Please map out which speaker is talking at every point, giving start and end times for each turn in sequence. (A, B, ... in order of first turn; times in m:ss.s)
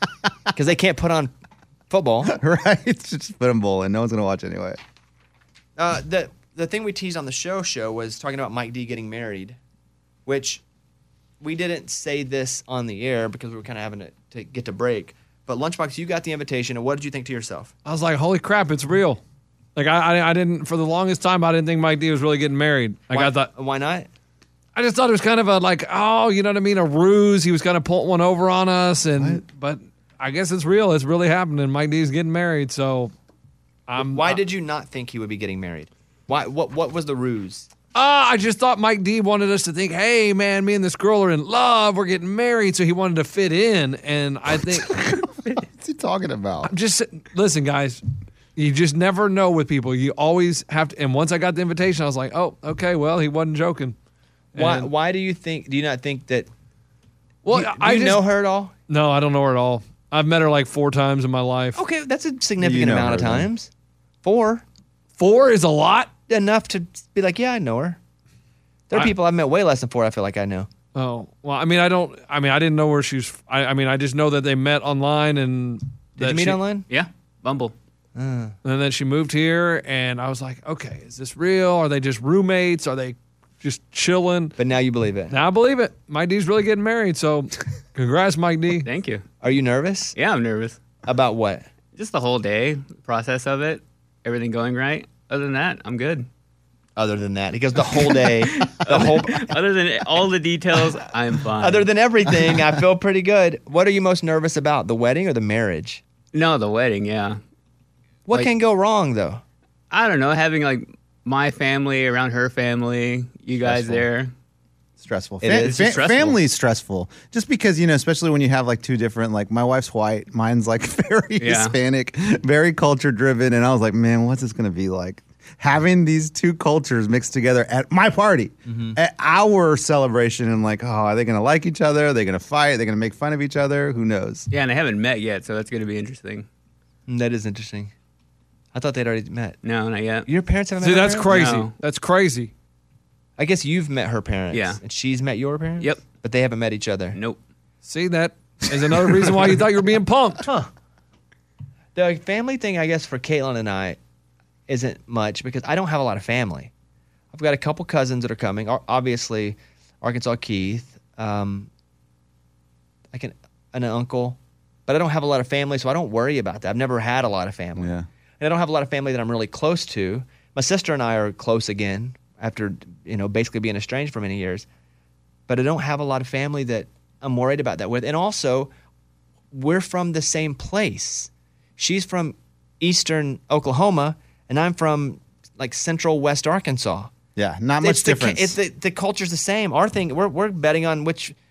0:00.5-0:01.3 A
0:01.9-0:02.3 A
0:02.2-0:04.8 B
0:05.8-0:09.6 A
0:10.2-0:10.6 A
0:11.4-0:17.7 A
0:17.8-0:19.2 C
0:19.8-0:23.5 C
0:23.1-0:24.1 A
0:24.8-0:33.1 C
0:29.2-0:29.4 B
0:33.9-0:34.4 C
0:34.0-0:37.7 A
0:37.9-0:45.0 C
0:44.7-0:46.7 B
0:46.6-0:48.0 C
0:48.6-0:54.0 C
0:54.5-0:54.9 C
0:54.6-0:56.5 A
0:57.4-0:58.3 C
0:57.5-0:58.7 A
0:58.9-1:01.8 C
1:01.8-1:03.7 A
1:02.6-1:03.5 B
1:04.2-1:04.6 A
1:05.2-1:06.1 C
1:06.3-1:08.0 A
1:08.9-1:10.7 A
1:10.9-1:16.6 C
1:16.2-1:16.9 A
1:16.9-1:17.8 D
1:18.2-1:18.6 A
1:18.6-1:24.5 C
1:24.6-1:25.4 A
1:25.3-1:28.9 C
1:28.8-1:29.2 D
1:29.4-1:30.1 A
1:30.1-1:30.8 D
1:31.0-1:31.6 A
1:31.9-1:36.3 D
1:37.0-1:39.5 A
1:38.2-1:41.9 D
1:41.6-1:46.0 A
1:46.3-1:47.4 D
1:48.3-1:49.4 A
1:49.9-1:54.3 D
1:53.6-1:54.0 B
1:55.0-2:14.5 B
1:55.4-1:56.0 A
1:55.6-1:56.4 D
2:01.4-2:01.8 D
2:08.6-2:09.0 A
2:14.5-2:16.5 D
2:17.1-2:17.9 A
2:18.7-2:19.6 A
2:19.6-2:20.3 D
2:20.2-2:21.5 A
2:20.8-2:22.5 C
2:21.3-2:21.7 D
2:23.4-2:27.2 A
2:24.5-2:24.8 D
2:27.1-2:27.4 D
2:27.8-2:30.4 C
2:30.4-2:30.7 A
2:31.9-2:34.0 A
2:34.7-2:36.7 A
2:37.3-2:41.7 A
2:43.1-2:54.7 A
2:47.8-2:48.0 B
2:55.5-2:58.7 A
2:59.5-3:07.1 A
3:07.4-3:08.6 B
3:07.8-3:11.3 A